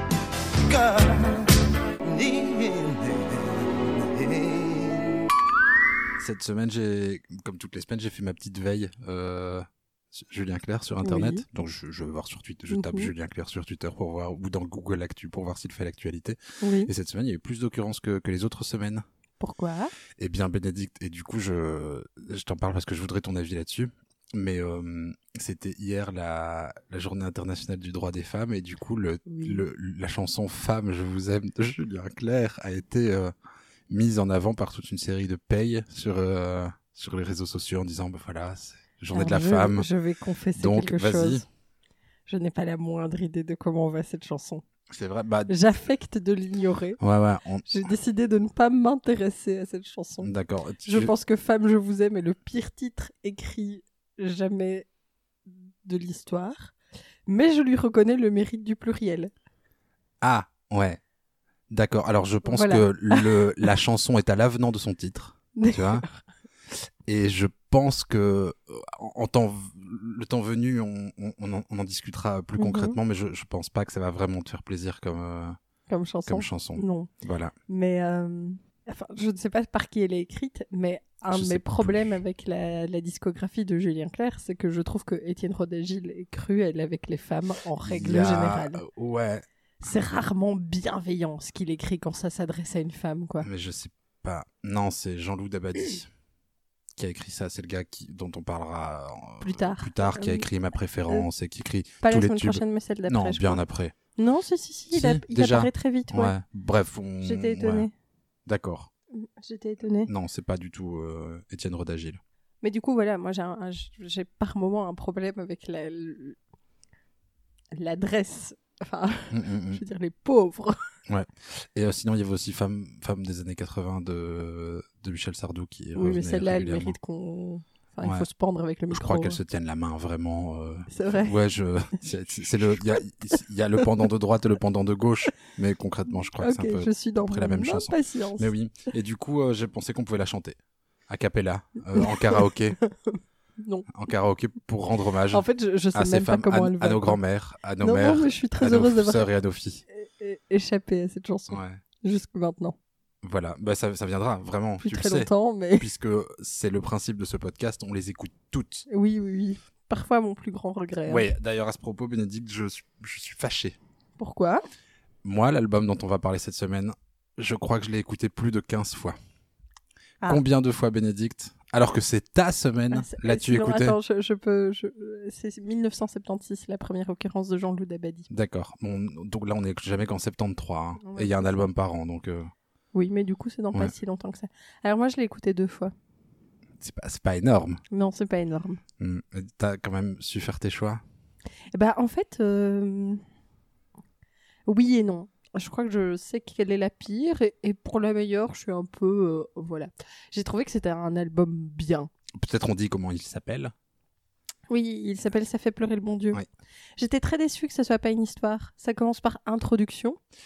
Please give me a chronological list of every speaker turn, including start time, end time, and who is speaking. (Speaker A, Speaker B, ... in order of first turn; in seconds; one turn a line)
Speaker A: 0.7-5.2
Speaker B: 6.2-19.1
Speaker C: 11.0-11.4
Speaker C: 12.7-13.1
Speaker C: 16.6-16.9
Speaker C: 19.4-19.9
Speaker B: 20.2-33.3
Speaker C: 29.3-29.6
Speaker B: 33.9-39.9
Speaker C: 39.1-41.5
Speaker B: 40.6-41.4
Speaker C: 42.3-44.6
Speaker B: 44.9-45.5
Speaker C: 45.5-47.0
Speaker B: 47.0-47.7
Speaker C: 47.7-50.3
Speaker B: 50.2-51.1
Speaker C: 50.8-54.9
Speaker C: 55.5-56.7
Speaker C: 57.3-59.3
Speaker B: 60.2-61.0
Speaker B: 61.7-66.0
Speaker C: 62.5-63.4
Speaker C: 65.6-66.1
Speaker B: 67.1-75.6
Speaker C: 72.6-73.0
Speaker C: 75.9-77.1
Speaker B: 76.3-77.5
Speaker C: 77.7-88.8
Speaker B: 81.3-82.2
Speaker B: 87.8-89.5
Speaker C: 89.8-93.5
Speaker B: 93.4-96.1
Speaker B: 97.0-104.0
Speaker C: 99.4-100.5
Speaker C: 102.0-103.6
Speaker C: 104.2-106.3
Speaker B: 104.9-107.9
Speaker C: 107.2-107.9
Speaker B: 108.5-108.9
Speaker C: 109.2-110.1
Speaker B: 110.1-112.2
Speaker C: 112.6-116.4
Speaker C: 117.7-120.8
Speaker B: 119.3-119.8
Speaker B: 121.1-127.0
Speaker C: 126.0-129.4
Speaker B: 128.9-140.6
Speaker C: 130.9-131.3
Speaker C: 136.4-138.5
Speaker B: 141.1-142.8
Speaker C: 142.0-143.9
Speaker B: 143.9-149.8
Speaker C: 145.3-147.2
Speaker C: 147.8-149.3
Speaker C: 149.9-152.8
Speaker B: 151.5-151.8
Speaker B: 153.2-158.9
Speaker C: 154.8-155.9
Speaker C: 158.9-161.3
Speaker B: 161.1-163.8
Speaker C: 164.2-164.6
Speaker B: 165.2-169.2
Speaker B: 170.3-174.0
Speaker C: 172.9-178.3
Speaker B: 178.3-182.5
Speaker C: 181.0-181.7
Speaker C: 182.9-185.9
Speaker B: 186.8-187.8
Speaker C: 187.9-188.8
Speaker B: 189.0-191.0
Speaker C: 191.7-193.2
Speaker C: 194.7-202.1
Speaker B: 202.3-203.7
Speaker C: 204.7-206.4
Speaker C: 207.0-210.2